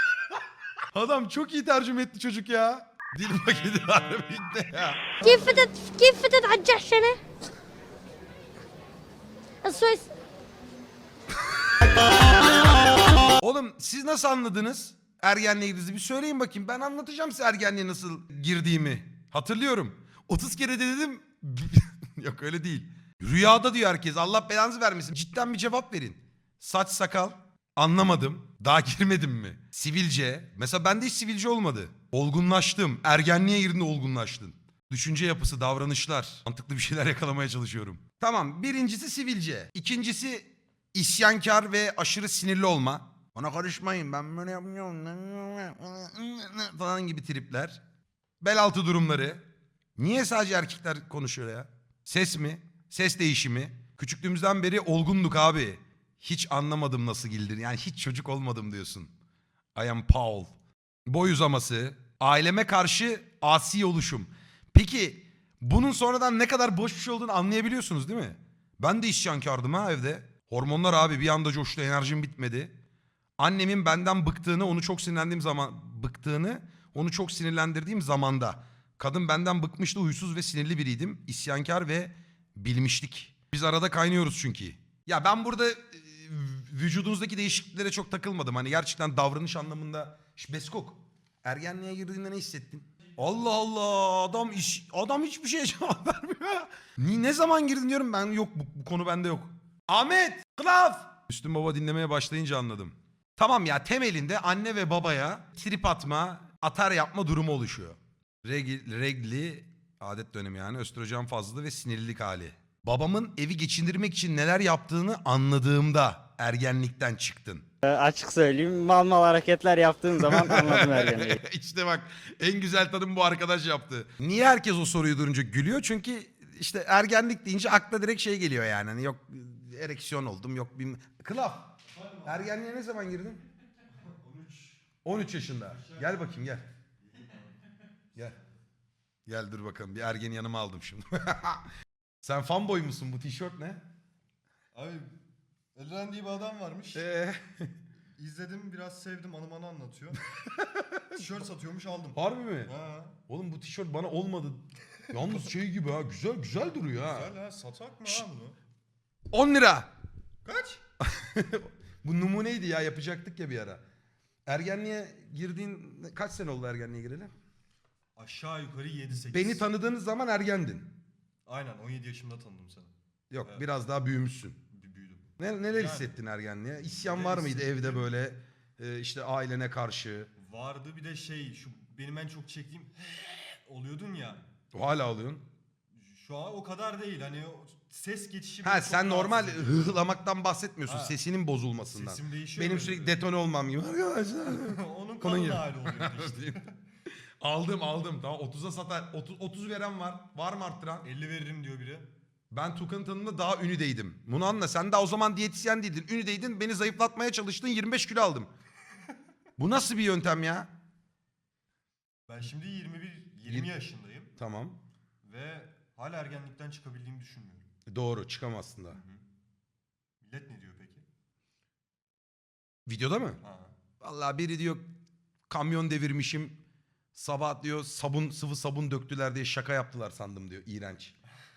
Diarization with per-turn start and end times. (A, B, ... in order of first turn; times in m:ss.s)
0:00.9-0:05.0 A
0:05.2-0:07.2 B
0:09.6-0:10.1 B
0:13.4-0:47.8 A
0:48.4-0:49.4 A
0:50.0-0:59.1 A
0:59.8-1:00.5 A
1:01.1-1:12.7 A
1:13.4-1:57.7 A
1:57.8-2:01.4 C
2:00.2-2:13.4 A
2:11.9-2:12.5 D
2:14.1-2:14.8 D
2:15.0-2:16.7 A
2:15.4-2:16.2 D
2:19.3-2:21.7 A
2:22.2-2:23.8 A
2:24.7-2:25.2 D
2:25.8-2:27.0 D
2:26.9-2:27.7 A
2:28.2-2:30.2 D
2:30.6-2:31.1 A
2:31.1-2:33.2 D
2:32.2-2:32.7 A
2:33.3-2:37.3 A
2:36.9-2:38.6 D
2:39.3-2:39.9 A
2:40.4-2:40.8 D
2:41.0-2:43.8 A
2:44.5-2:47.3 A
2:48.2-2:49.7 D
2:49.3-2:50.9 A
2:51.5-2:52.9 D
2:53.3-2:54.6 A
2:54.7-2:56.2 D
2:55.4-3:00.3 A
2:56.8-2:58.1 D
3:00.4-3:04.5 D
3:04.7-3:05.4 A
3:06.0-3:10.1 D
3:08.6-3:16.6 A
3:10.9-3:11.2 D
3:11.9-3:13.2 D
3:14.5-3:16.7 D
3:17.4-3:21.1 A
3:21.0-3:22.1 D
3:22.5-3:28.5 A
3:29.6-3:30.7 A
3:32.3-3:34.3 D
3:34.4-3:34.8 A
3:35.2-3:37.7 D
3:37.9-3:39.0 A
3:38.9-3:39.2 D
3:40.2-3:41.0 D
3:42.9-3:43.4 A
3:43.4-3:43.7 D
3:44.0-3:44.9 A
3:45.5-3:46.6 A
3:47.2-3:51.1 A